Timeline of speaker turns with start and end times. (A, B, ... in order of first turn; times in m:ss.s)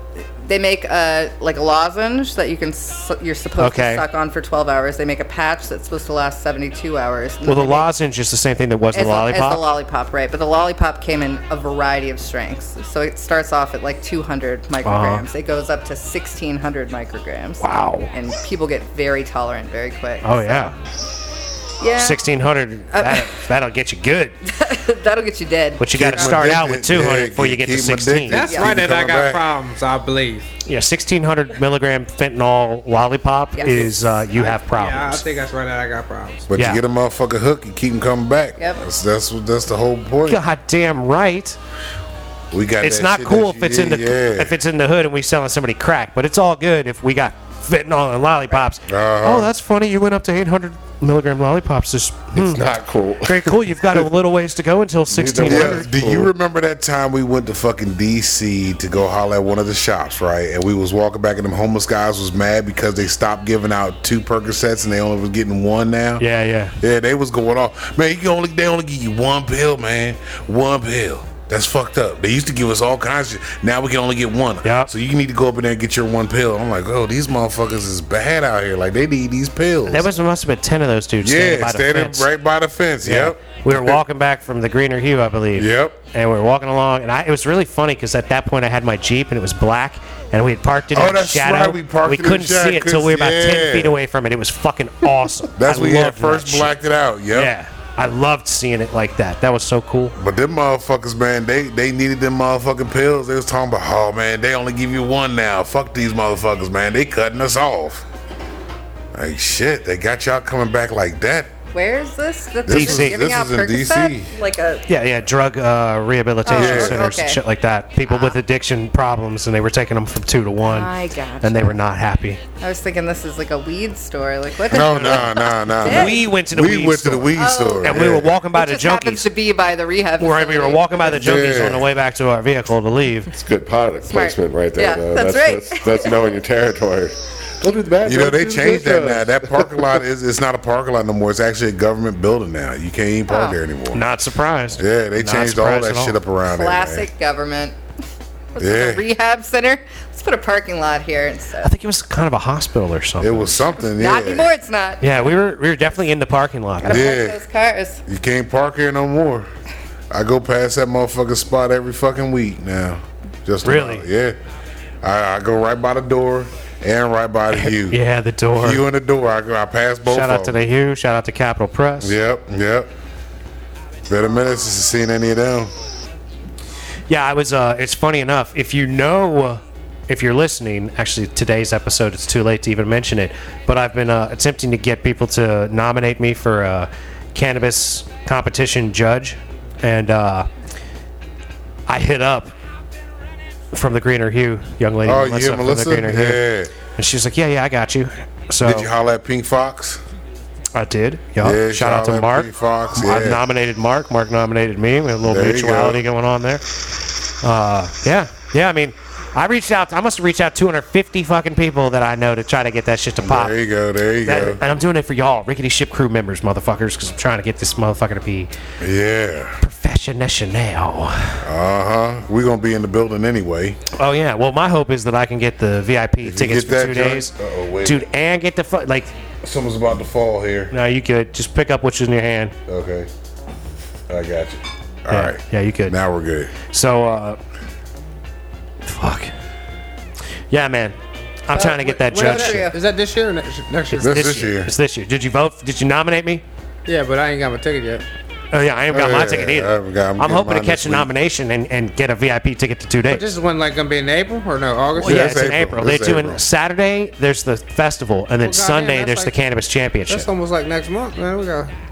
0:00.4-0:07.9 A
0:03.6-0:04.0 B
0:07.4-0:09.6 B
0:08.9-0:20.7 A
0:14.8-0:15.2 B
0:17.6-0:18.1 B
0:20.2-0:20.7 B
0:21.8-0:22.2 A
0:22.0-0:24.4 B
0:22.9-0:23.4 A
0:24.4-0:26.4 A
0:25.8-0:28.4 B
0:25.9-0:29.5 C
0:28.3-0:30.5 D
0:28.5-0:28.7 A
0:30.6-0:35.2 B
0:33.6-0:34.1 A
0:34.3-0:36.5 D
0:36.5-0:40.4 C
0:36.6-0:36.8 B
0:38.6-0:38.8 A
0:40.2-0:41.6 B
0:42.5-0:44.5 C
0:42.8-0:52.6 B
0:48.9-0:49.5 C
0:52.3-0:54.1 E
0:53.2-0:55.9 B
0:55.1-0:56.3 E
0:55.4-1:06.2 C
1:06.2-1:06.8 B
1:06.8-1:20.1 C
1:14.6-1:14.9 B
1:19.9-1:22.3 B
1:21.2-1:24.0 C
1:23.0-1:36.7 B
1:25.6-1:26.0 C
1:30.9-1:34.0 C
1:35.6-1:37.5 C
1:37.3-1:40.2 B
1:40.2-1:48.0 C
1:49.1-1:51.5 C
1:51.7-1:54.8 A
1:52.6-1:54.3 C
1:52.7-1:53.2 B
1:54.9-2:00.9 B
1:56.4-1:57.4 A
1:56.6-1:57.0 C
1:58.0-1:58.4 A
2:00.6-2:01.8 A
2:01.4-2:02.4 B
2:02.6-2:06.2 A
2:04.7-2:08.3 C
2:05.8-2:09.3 B
2:07.4-2:11.2 A
2:10.2-2:13.3 B
2:11.1-2:11.9 C
2:13.3-2:19.8 E
2:14.1-2:16.2 A
2:18.0-2:24.0 C
2:23.3-2:23.6 A
2:23.9-2:26.2 B
2:24.8-2:27.1 C
2:26.5-2:27.7 A
2:28.5-2:31.7 A
2:28.6-2:29.0 C
2:31.6-2:33.7 B
2:33.2-2:34.5 C
2:34.0-2:35.0 A
2:35.0-2:37.0 B
2:36.8-2:38.0 A
2:36.8-2:37.4 C
2:38.1-2:39.5 C
2:40.1-2:44.4 C
2:43.6-2:44.0 B
2:45.0-2:48.0 C
2:47.5-2:48.8 B
2:48.5-2:50.6 C
2:50.1-2:52.2 B
2:52.0-2:52.9 C
2:54.1-2:55.7 C
2:57.1-3:10.5 B
3:11.9-3:12.5 B
3:13.7-3:18.9 B
3:15.0-3:16.7 C
3:18.6-3:20.0 C
3:20.7-3:26.6 B
3:21.4-3:23.4 C
3:25.2-3:26.0 C
3:27.4-3:33.6 B
3:33.2-3:34.6 C
3:34.2-3:38.5 B
3:38.8-3:39.6 C
3:39.6-3:41.4 B
3:41.4-3:43.8 C
3:44.0-3:49.1 B
3:46.2-3:48.0 C
3:49.4-3:50.7 C
3:50.7-3:52.5 B
3:52.7-3:53.1 C
3:54.1-3:56.5 C
3:55.1-3:56.0 B
3:56.7-3:57.4 B
3:58.8-3:59.3 B
4:00.5-4:02.7 B
4:01.5-4:02.8 A
4:02.0-4:04.1 D
4:03.9-4:06.4 B
4:04.0-4:04.7 C
4:06.8-4:08.0 D
4:08.5-4:13.3 B
4:08.9-4:11.1 C
4:13.1-4:15.3 D
4:15.0-4:16.4 C
4:15.0-4:20.3 B
4:18.4-4:19.4 D
4:20.1-4:21.7 D